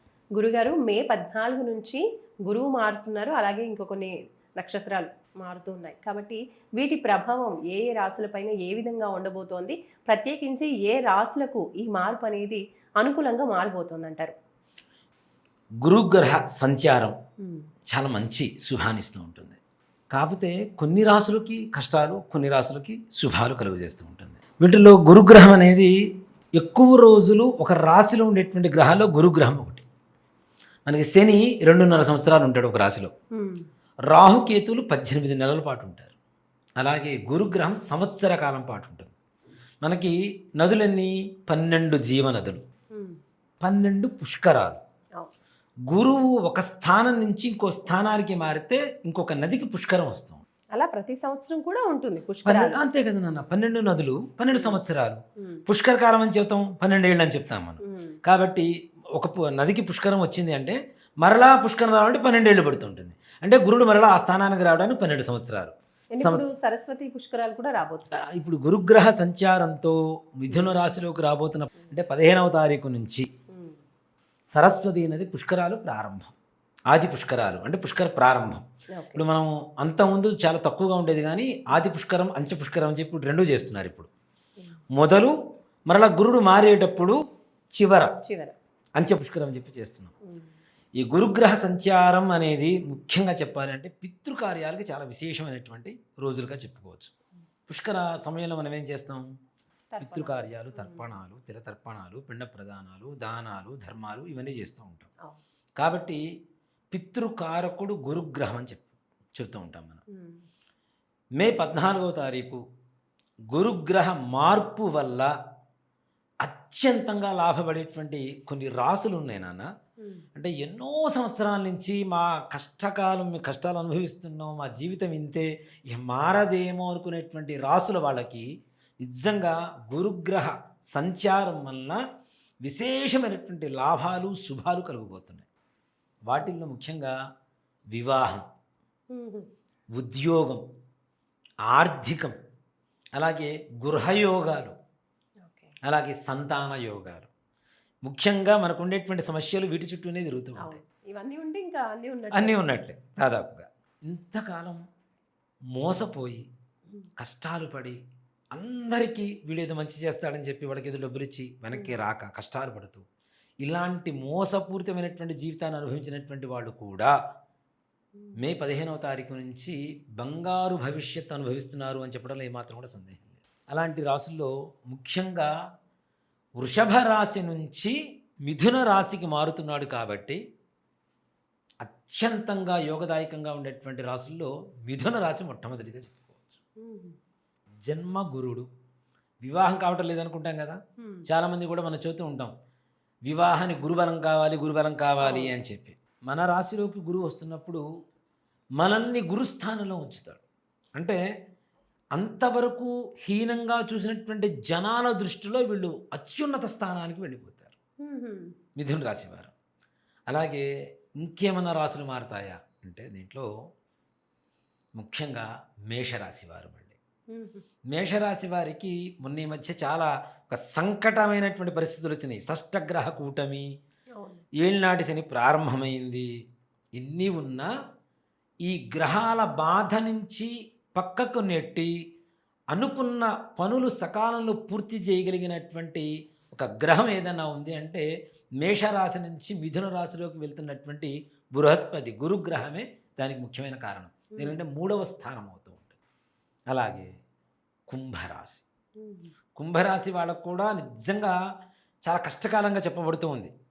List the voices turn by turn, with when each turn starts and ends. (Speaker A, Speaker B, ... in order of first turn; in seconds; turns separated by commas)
Speaker A: 0.3-14.3, Speaker B: 15.8-17.1, Speaker B: 17.9-19.6, Speaker B: 20.1-25.9, Speaker B: 26.6-29.8, Speaker B: 30.9-33.1, Speaker A: 33.3-33.6, Speaker B: 34.1-36.1, Speaker B: 36.8-39.1, Speaker B: 39.8-42.6, Speaker A: 42.9-43.2, Speaker B: 43.6-44.8, Speaker B: 45.9-50.4, Speaker A: 50.7-52.8, Speaker B: 52.5-66.4, Speaker A: 54.5-54.8, Speaker A: 57.8-58.1, Speaker A: 66.1-68.1, Speaker B: 68.3-73.2, Speaker A: 70.5-70.7, Speaker A: 73.5-73.8, Speaker B: 74.5-76.3, Speaker B: 76.9-84.1, Speaker A: 78.9-79.2, Speaker B: 84.9-85.3, Speaker B: 85.9-87.2, Speaker B: 87.7-88.1, Speaker A: 88.2-88.5, Speaker B: 89.0-90.1, Speaker A: 90.2-90.5, Speaker B: 91.0-97.1, Speaker B: 97.7-99.3, Speaker A: 99.9-101.0, Speaker B: 100.0-105.1, Speaker B: 105.8-106.2, Speaker B: 106.9-110.0, Speaker A: 110.1-110.4, Speaker B: 111.4-112.6, Speaker B: 113.5-115.3, Speaker B: 116.4-119.7, Speaker B: 120.3-128.5, Speaker B: 129.0-132.0, Speaker B: 132.6-135.4, Speaker B: 136.3-137.1, Speaker B: 137.9-138.4, Speaker A: 139.1-139.4, Speaker B: 139.9-140.6, Speaker B: 141.7-142.3, Speaker B: 143.2-144.7, Speaker A: 145.4-145.7, Speaker B: 145.8-147.3, Speaker B: 148.0-150.8, Speaker A: 150.6-152.7, Speaker B: 152.3-154.8, Speaker B: 155.8-156.4, Speaker B: 157.2-158.0, Speaker B: 158.5-163.0, Speaker A: 161.7-162.0, Speaker B: 163.6-167.1, Speaker B: 168.4-175.5, Speaker B: 176.6-177.9, Speaker B: 178.4-180.4, Speaker B: 181.8-186.6, Speaker A: 186.8-187.2, Speaker B: 187.8-188.7, Speaker B: 189.4-192.5, Speaker B: 193.3-197.8, Speaker A: 195.2-195.5, Speaker B: 198.8-200.4, Speaker B: 202.1-207.8, Speaker A: 208.0-208.5, Speaker B: 208.8-209.5, Speaker B: 210.3-210.6, Speaker B: 211.2-213.4, Speaker B: 215.0-216.9, Speaker A: 217.3-217.6, Speaker B: 217.9-223.7, Speaker A: 224.2-224.4, Speaker B: 224.6-226.2, Speaker B: 226.9-227.7, Speaker B: 228.6-231.9, Speaker B: 232.7-238.0, Speaker B: 238.6-245.9, Speaker A: 244.3-244.6, Speaker B: 246.7-247.1, Speaker B: 247.9-248.6, Speaker A: 249.0-249.3, Speaker B: 249.6-251.3, Speaker B: 252.0-253.5